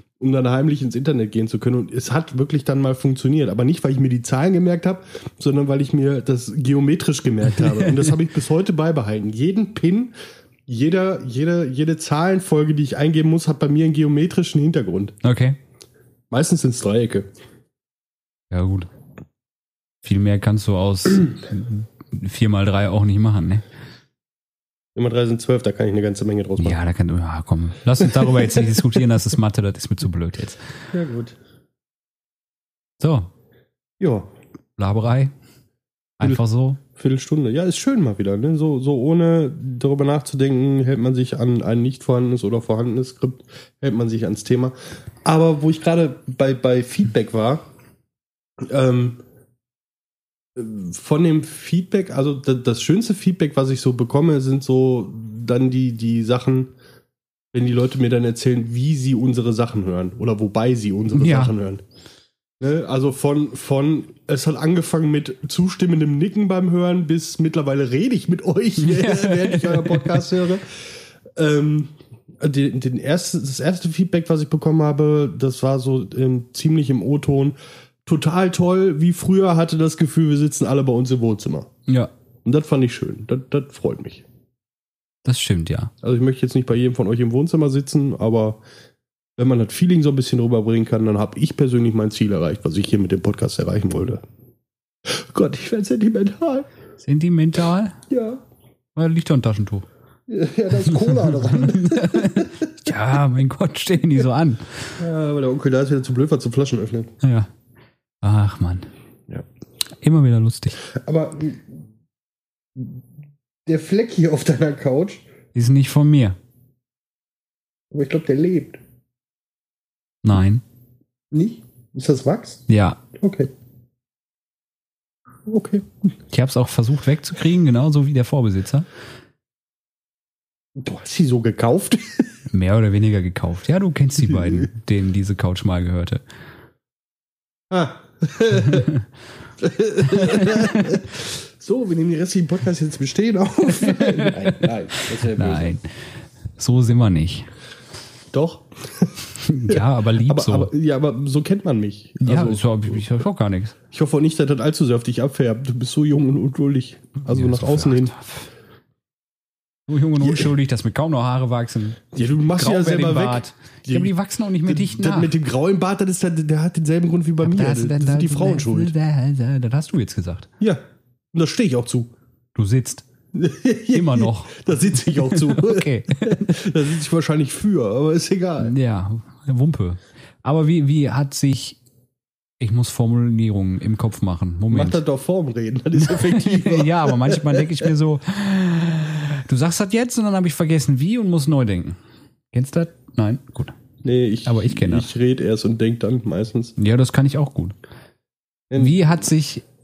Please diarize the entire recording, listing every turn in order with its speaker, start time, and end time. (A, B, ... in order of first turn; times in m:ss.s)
0:00.2-0:10.1 A
0:10.7-0:15.2 A
0:15.2-0:15.6 B
0:16.3-0:17.3 A
0:18.5-0:18.9 B
0:20.0-0:23.6 B
0:24.9-0:26.8 A
0:26.6-0:30.6 B
0:28.2-0:28.7 A
0:30.9-0:31.4 A
0:33.0-0:33.3 B
0:34.0-0:34.3 A
0:34.8-0:35.3 B
0:36.2-0:36.8 B
0:36.9-0:47.6 A
0:48.6-0:49.2 A
0:50.5-0:56.7 A
0:57.5-1:01.8 A
1:01.1-1:01.5 B
1:02.6-1:10.8 A
1:08.8-1:10.2 B
1:11.3-1:17.5 A
1:18.0-1:21.7 A
1:22.4-1:24.2 A
1:25.2-1:25.9 B
1:26.0-1:28.6 A
1:29.4-1:34.2 A
1:35.0-1:36.7 A
1:37.0-1:38.0 B
1:38.1-1:38.4 A
1:39.0-1:39.9 B
1:40.3-1:42.6 A
1:40.8-1:45.0 B
1:45.0-1:47.1 A
1:47.2-1:47.5 B
1:48.2-1:48.9 B
1:50.0-1:50.8 B
1:50.9-1:51.8 A
1:52.7-1:53.0 A
1:53.6-1:55.2 A
1:55.5-1:56.4 B
1:57.9-1:58.8 A
2:00.2-2:00.6 B
2:01.3-2:03.5 A
2:02.7-2:03.0 B
2:05.4-2:05.9 A
2:06.3-2:08.9 B
2:10.8-2:12.3 A
2:12.5-2:16.2 B
2:17.7-2:18.9 A
2:18.5-2:19.0 B
2:19.6-2:25.7 A
2:20.0-2:21.0 B
2:23.7-2:25.8 B
2:26.6-2:27.5 B
2:28.3-2:29.2 A
2:29.4-2:30.7 B
2:29.7-2:33.0 A
2:32.2-2:33.7 B
2:33.9-2:38.1 A
2:37.2-2:38.5 B
2:39.9-2:45.3 B
2:40.2-2:40.5 A
2:42.1-2:44.1 A
2:44.6-2:48.9 A
2:47.4-2:50.5 B
2:50.6-2:52.1 A
2:52.5-2:53.0 B
2:53.3-2:58.7 A
2:53.9-2:56.5 B
2:58.6-3:01.8 B
3:02.6-3:05.0 B
3:04.7-3:07.9 A
3:06.0-3:12.0 B
3:12.5-3:13.7 B
3:14.0-3:16.7 A
3:14.4-3:15.1 B
3:16.8-3:17.7 B
3:18.7-3:19.0 A
3:18.8-3:19.6 B